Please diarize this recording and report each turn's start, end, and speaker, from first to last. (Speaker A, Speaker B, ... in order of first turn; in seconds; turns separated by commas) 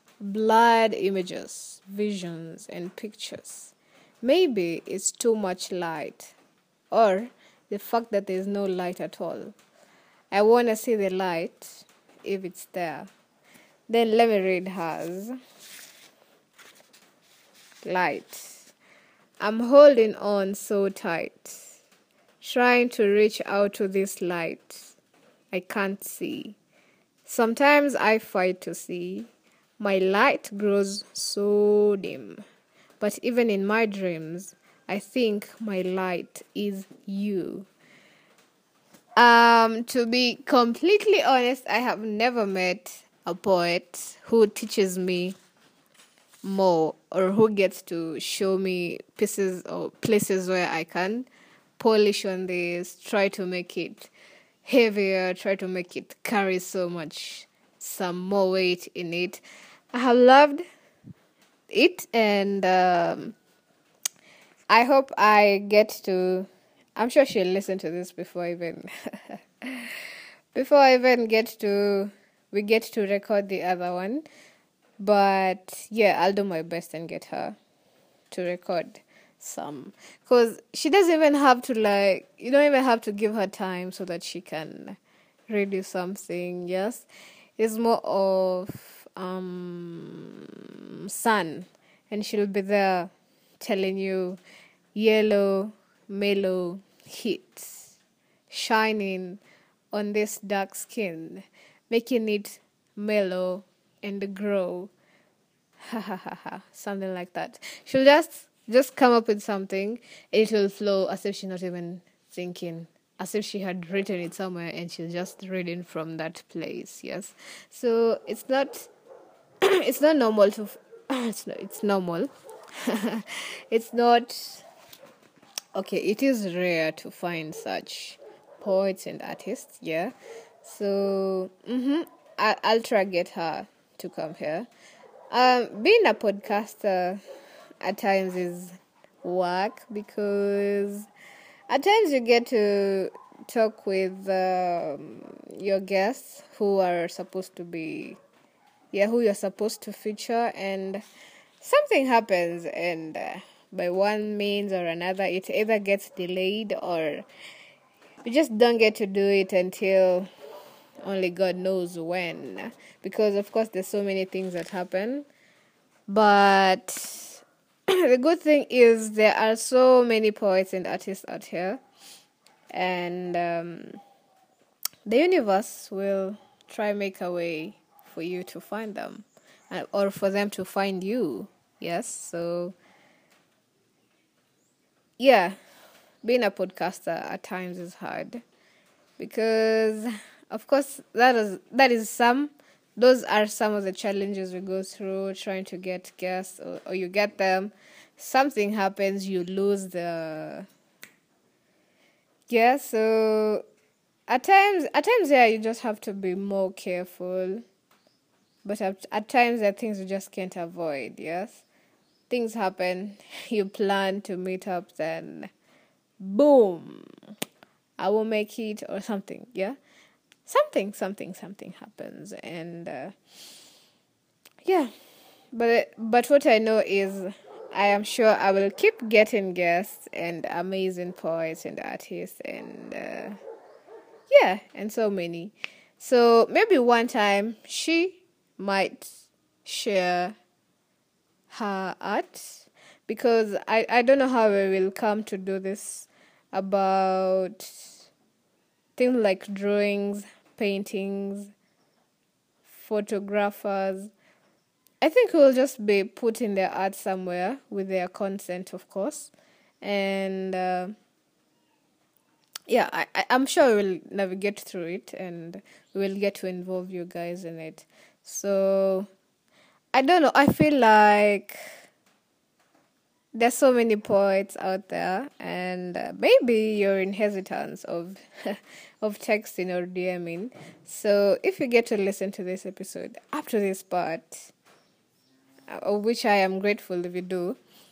Speaker A: 0.2-6.3, Speaker A: 6.9-9.6, Speaker A: 10.3-13.1, Speaker A: 13.9-15.3, Speaker A: 17.8-18.7, Speaker A: 19.4-21.8, Speaker A: 22.4-24.9, Speaker A: 25.5-26.6, Speaker A: 27.2-32.4, Speaker A: 33.0-37.7, Speaker A: 39.1-45.3, Speaker A: 46.4-54.1, Speaker A: 54.6-59.4, Speaker A: 59.9-60.6, Speaker A: 61.7-63.4, Speaker A: 64.7-74.2, Speaker A: 75.0-77.5, Speaker A: 78.3-85.0, Speaker A: 85.5-87.0, Speaker A: 87.6-94.4, Speaker A: 94.9-98.0, Speaker A: 98.5-99.4, Speaker A: 99.9-104.9, Speaker A: 105.8-118.9, Speaker A: 119.6-124.6, Speaker A: 125.7-134.7, Speaker A: 135.3-137.2, Speaker A: 137.8-141.1, Speaker A: 141.7-148.2, Speaker A: 148.9-151.0, Speaker A: 151.6-157.2, Speaker A: 158.2-160.3, Speaker A: 161.0-165.2, Speaker A: 166.1-171.8, Speaker A: 172.7-174.0, Speaker A: 175.1-182.7, Speaker A: 185.2-185.6, Speaker A: 186.2-188.4, Speaker A: 189.2-200.7, Speaker A: 202.5-203.6, Speaker A: 204.3-207.6, Speaker A: 208.6-211.6, Speaker A: 212.3-215.5, Speaker A: 216.2-217.1, Speaker A: 218.0-219.8, Speaker A: 220.4-223.1, Speaker A: 224.6-224.9, Speaker A: 225.5-233.4, Speaker A: 234.3-240.4, Speaker A: 241.5-247.9, Speaker A: 248.9-251.5, Speaker A: 252.6-254.1, Speaker A: 255.0-260.9, Speaker A: 262.7-269.1, Speaker A: 269.9-271.6, Speaker A: 273.3-284.5, Speaker A: 285.7-287.6